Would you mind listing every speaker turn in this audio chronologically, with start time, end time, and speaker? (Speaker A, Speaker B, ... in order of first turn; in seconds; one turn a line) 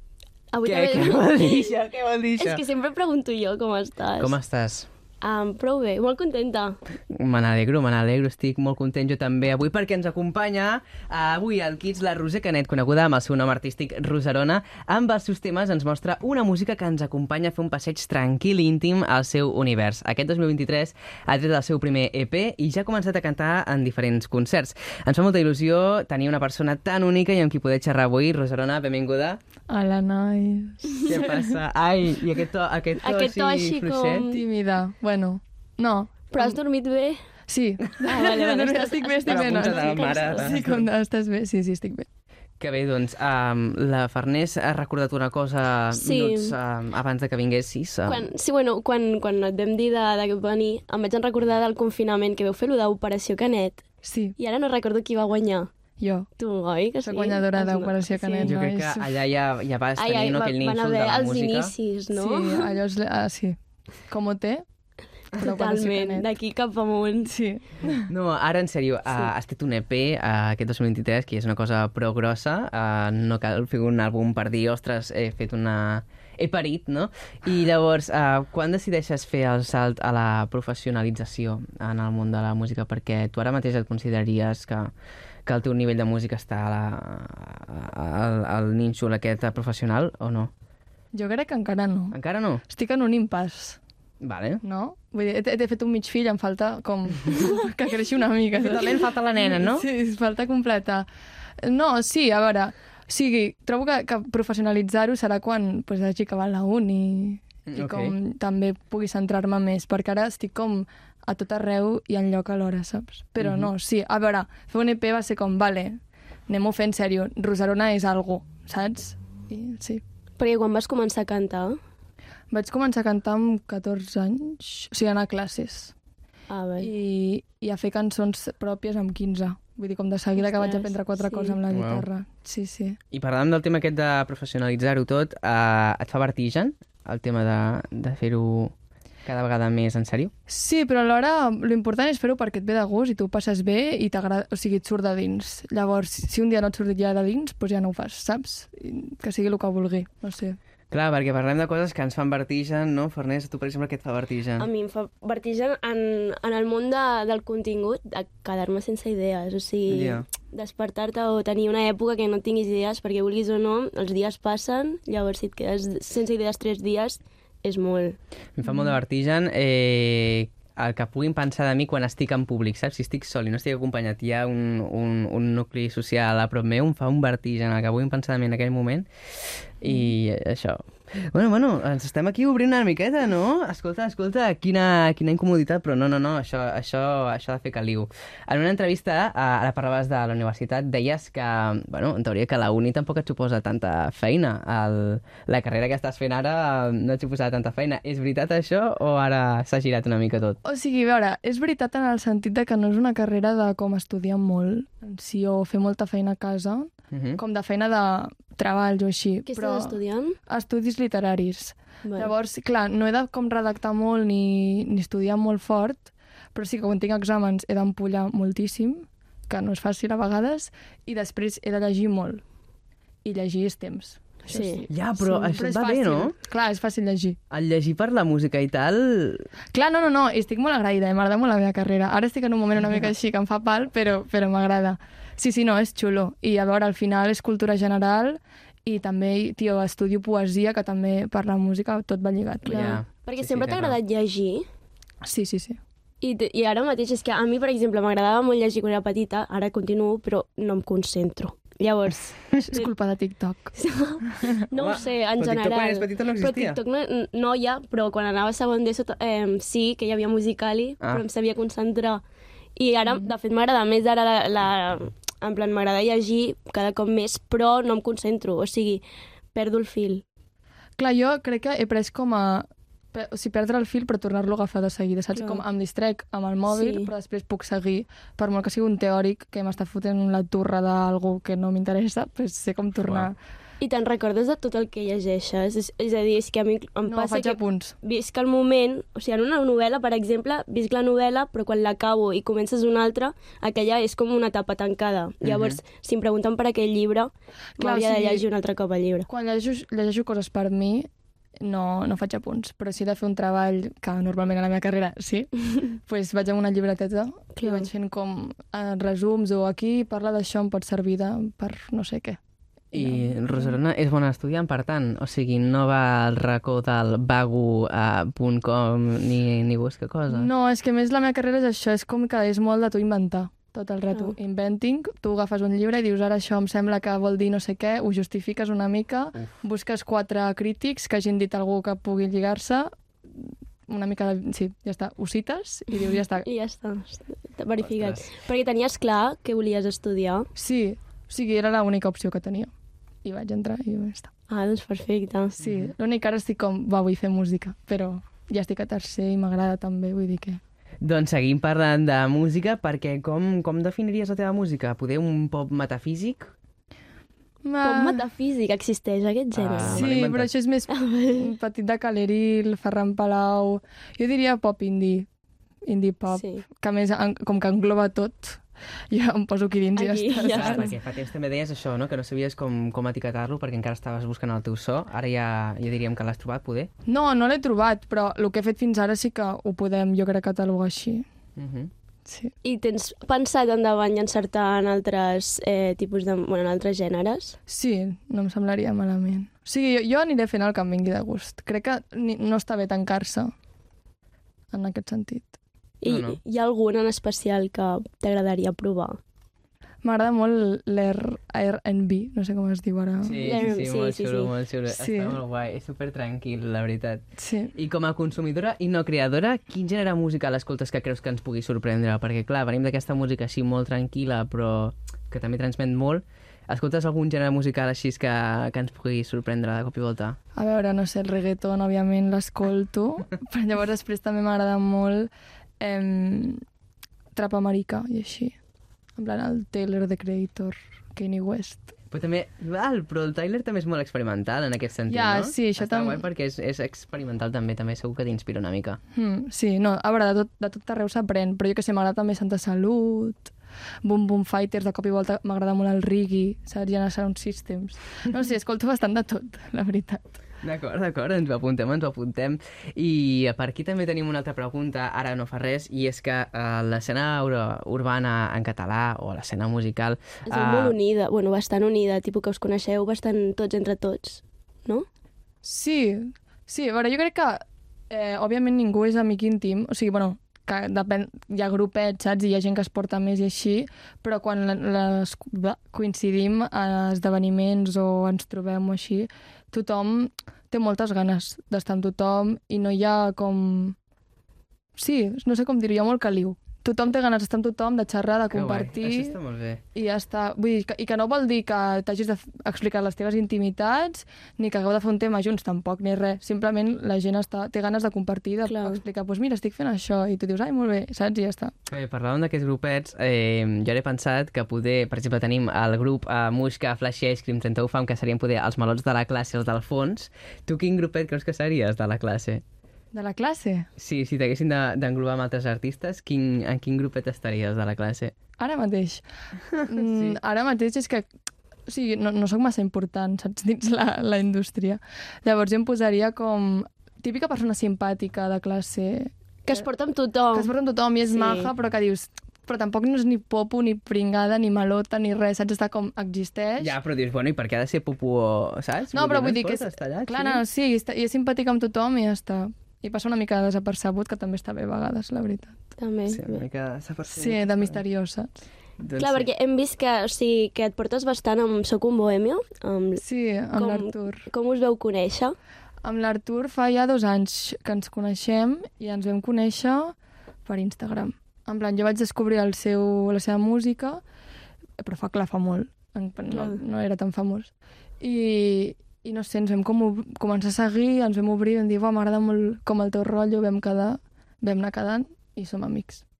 Speaker A: 0.5-1.7
Speaker B: 0.6-2.6
Speaker A: 2.4-4.3
Speaker B: 4.2-4.9
Speaker A: 5.2-6.8
Speaker B: 7.1-29.4
Speaker C: 29.7-31.6
Speaker B: 31.0-34.2
Speaker A: 33.0-34.4
Speaker C: 34.3-36.6
Speaker A: 36.3-37.2
Speaker C: 37.5-42.0
Speaker A: 38.0-40.5
Speaker B: 39.3-40.9
Speaker B: 42.6-48.3
Speaker A: 45.9-46.5
Speaker A: 48.0-53.8
Speaker C: 54.0-54.4
Speaker A: 54.4-55.7
Speaker C: 56.0-56.3
Speaker A: 56.4-58.6
Speaker C: 57.0-59.2
Speaker B: 58.4-61.7
Speaker A: 60.0-62.8
Speaker C: 62.1-63.6
Speaker C: 64.1-64.6
Speaker C: 65.3-66.3
Speaker A: 65.4-67.3
Speaker C: 67.2-68.1
Speaker B: 68.1-84.9
Speaker B: 85.5-90.5
Speaker C: 91.1-93.8
Speaker B: 92.1-92.6
Speaker B: 94.2-94.6
Speaker C: 94.6-101.1
Speaker B: 98.6-99.9
Speaker C: 101.6-120.0
Speaker B: 107.7-108.1
Speaker B: 113.4-113.7
Speaker A: 120.4-121.8
Speaker C: 122.5-125.9
Speaker A: 126.5-126.9
Speaker C: 126.8-133.0
Speaker A: 130.4-131.6
Speaker B: 131.7-132.1
Speaker B: 133.1-138.7
Speaker B: 139.2-140.3
Speaker C: 140.5-150.6
Speaker B: 150.9-154.7
Speaker A: 154.6-168.2
Speaker B: 159.9-160.2
Speaker B: 168.6-179.1
Speaker B: 179.8-200.6
Speaker C: 200.6-222.4
Speaker B: 207.1-207.4
Speaker A: 209.4-210.4
Speaker A: 212.0-212.3
Speaker C: 223.2-227.4
Speaker A: 224.5-224.9
Speaker B: 224.9-226.3
Speaker B: 227.5-229.5
Speaker C: 229.7-243.0
Speaker B: 242.6-244.0
Speaker A: 242.7-244.6
Speaker C: 245.2-245.8
Speaker A: 246.2-252.9
Speaker C: 252.6-253.7
Speaker A: 253.7-262.2
Speaker C: 254.3-254.7
Speaker B: 254.7-256.8
Speaker A: 262.8-270.2
Speaker C: 271.0-283.4
Speaker A: 275.3-275.6
Speaker A: 276.7-277.1
Speaker B: 283.0-283.3
Speaker A: 283.8-299.3
Speaker C: 287.1-288.0
Speaker B: 295.4-295.8
Speaker C: 297.8-298.4
Speaker C: 299.3-301.1
Speaker C: 301.6-312.4
Speaker A: 307.6-307.9
Speaker C: 312.9-313.8
Speaker B: 312.9-320.5
Speaker C: 320.3-332.9
Speaker C: 333.9-336.5
Speaker A: 335.9-340.5
Speaker B: 337.8-338.2
Speaker C: 340.5-342.7
Speaker C: 343.2-344.3
Speaker A: 344.5-345.6
Speaker C: 345.6-350.6
Speaker B: 345.6-345.9
Speaker B: 351.0-356.5
Speaker C: 357.6-358.3
Speaker A: 357.8-360.1
Speaker B: 359.5-360.5
Speaker C: 359.8-365.3
Speaker A: 360.9-361.5
Speaker C: 365.9-370.9
Speaker A: 366.3-366.6
Speaker A: 369.9-370.9
Speaker B: 370.5-376.9
Speaker C: 377.1-381.2
Speaker B: 381.6-381.9
Speaker C: 382.2-382.5
Speaker A: 382.6-387.6
Speaker C: 387.7-393.5
Speaker C: 394.7-395.5
Speaker A: 396.0-399.2
Speaker B: 396.1-396.4
Speaker C: 400.0-403.8
Speaker B: 403.2-407.2
Speaker A: 403.4-404.5
Speaker C: 404.9-405.4
Speaker C: 407.4-407.8
Speaker B: 407.7-420.4
Speaker C: 420.5-426.6
Speaker C: 427.3-428.5
Speaker C: 429.2-431.9
Speaker B: 432.1-439.0
Speaker C: 435.1-436.2
Speaker C: 439.1-443.5
Speaker C: 444.0-450.2
Speaker B: 450.6-461.0
Speaker A: 460.4-465.1
Speaker C: 465.6-483.9
Speaker C: 485.0-489.4
Speaker B: 488.5-489.8
Speaker C: 489.9-501.7
Speaker A: 498.7-499.0
Speaker B: 501.9-512.6
Speaker C: 513.1-513.9
Speaker B: 514.0-518.3
Speaker C: 518.6-519.2
Speaker B: 519.7-520.4
Speaker C: 519.8-521.3
Speaker C: 521.9-529.9
Speaker A: 529.7-530.7
Speaker C: 530.5-536.9
Speaker A: 531.2-531.7
Speaker B: 536.8-540.6
Speaker C: 539.1-545.9
Speaker A: 546.0-546.6
Speaker B: 546.3-548.0
Speaker C: 547.3-548.5
Speaker B: 549.0-549.5
Speaker A: 549.2-553.2
Speaker C: 553.2-554.5
Speaker A: 553.8-555.5
Speaker C: 556.0-560.1
Speaker C: 560.6-564.2
Speaker C: 565.0-576.2
Speaker A: 566.5-566.8